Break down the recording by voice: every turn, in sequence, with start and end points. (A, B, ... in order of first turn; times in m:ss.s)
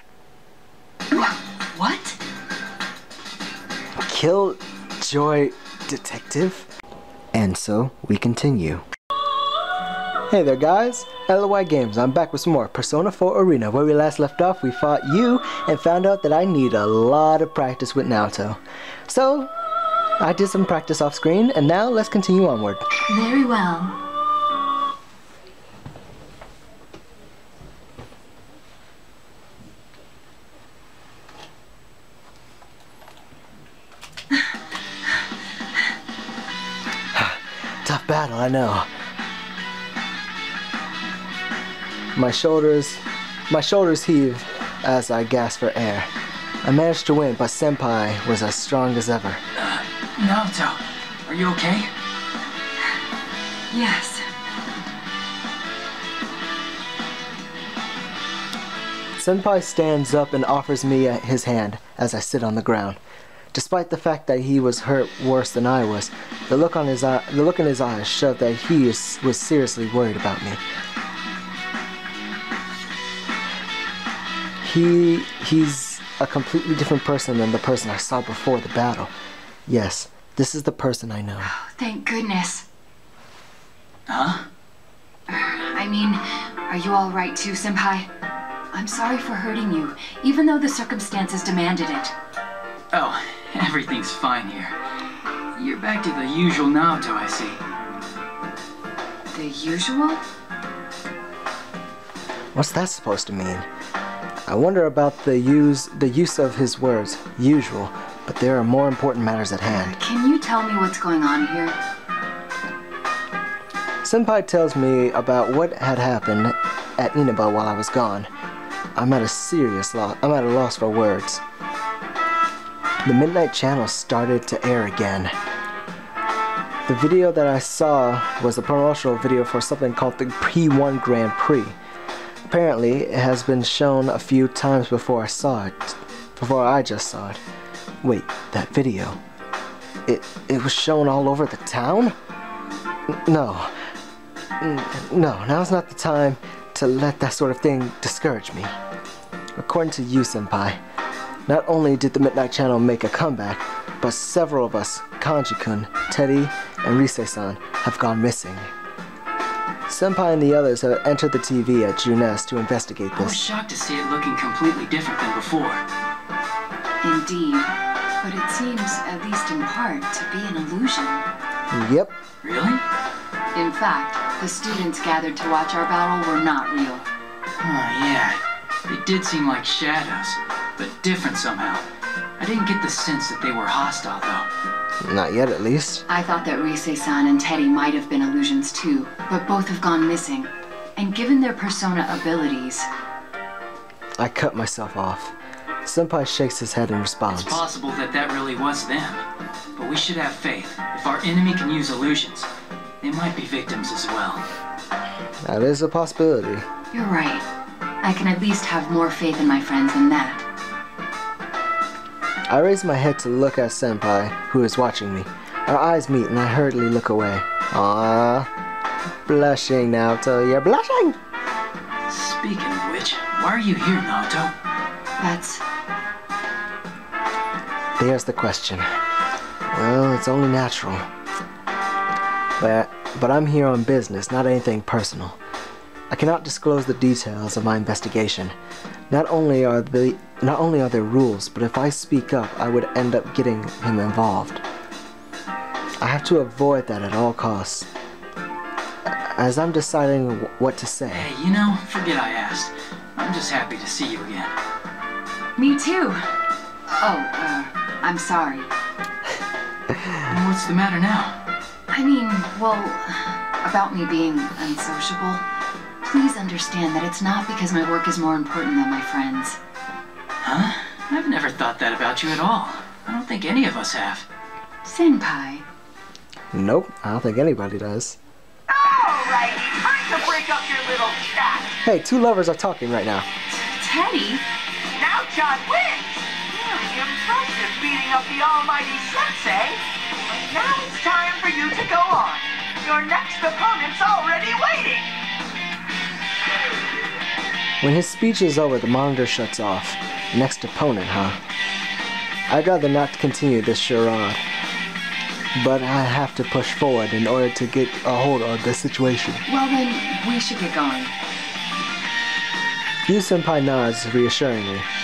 0:01.1-0:02.2 A
0:04.0-0:06.7 B
0:07.3-0:08.9 B
0:10.3-0:19.5 B
0:20.2-0:22.8 B
0:23.1-0:24.0 A
0:37.1-0:38.9 B
0:42.2-0:46.1 B
0:46.6-0:49.4 B
0:49.6-0:51.9 C
0:53.7-0:54.3 A
0:59.2-1:03.0 B
1:03.5-1:10.6 B
1:14.6-1:19.1 B
1:19.7-1:21.5 B
1:21.4-1:22.7 A
1:24.1-1:24.5 C
1:25.3-1:28.1 A
1:28.7-1:32.1 A
1:32.9-1:34.8 C
1:35.6-1:37.6 C
1:39.3-1:40.2 A
1:42.5-1:43.7 B
1:44.5-1:50.0 B
1:49.7-1:51.8 A
1:54.0-1:58.3 B
1:59.0-2:01.4 B
2:03.0-2:05.4 B
2:06.9-2:11.8 B
2:12.5-2:17.4 B
2:18.0-2:19.2 B
2:20.1-2:22.2 B
2:23.1-2:23.7 B
2:24.6-2:28.7 B
2:29.6-2:30.8 B
2:31.5-2:38.7 B
2:39.9-2:43.5 B
2:43.2-2:45.8 C
2:47.0-2:47.7 A
2:48.2-2:51.3 A
2:51.7-2:52.2 B
2:52.4-2:52.8 C
2:53.6-2:57.1 A
2:57.6-3:01.8 C
3:02.4-3:04.5 C
3:05.0-3:06.1 B
3:06.1-3:12.9 A
3:14.2-3:15.4 B
3:15.9-3:17.6 B
3:17.3-3:19.2 C
3:19.8-3:22.5 C
3:23.0-3:24.4 C
3:25.4-3:26.6 B
3:26.9-3:27.4 A
3:28.0-3:30.4 A
3:32.5-3:38.5 B
3:39.3-3:41.2 B
3:42.1-3:44.5 C
3:45.2-3:45.6 A
3:48.0-3:48.8 B
3:49.7-3:51.0 B
3:52.6-3:55.4 B
3:56.1-3:58.6 B
3:59.1-4:04.6 B
4:06.0-4:07.9 B
4:09.1-4:11.3 B
4:11.1-4:14.5 C
4:15.6-4:16.2 A
4:17.0-4:18.7 A
4:20.2-4:21.4 C
4:21.9-4:25.4 A
4:26.0-4:29.6 A
4:30.4-4:34.3 C
4:34.8-4:35.6 A
4:36.5-4:38.2 B
4:38.7-4:41.8 D
4:41.8-4:43.3 B
4:43.5-4:44.4 A
4:45.0-4:55.1 D
4:57.8-5:01.4 B
5:02.5-5:04.4 B
5:05.6-5:09.4 B
5:09.5-5:11.1 A
5:13.1-5:14.9 B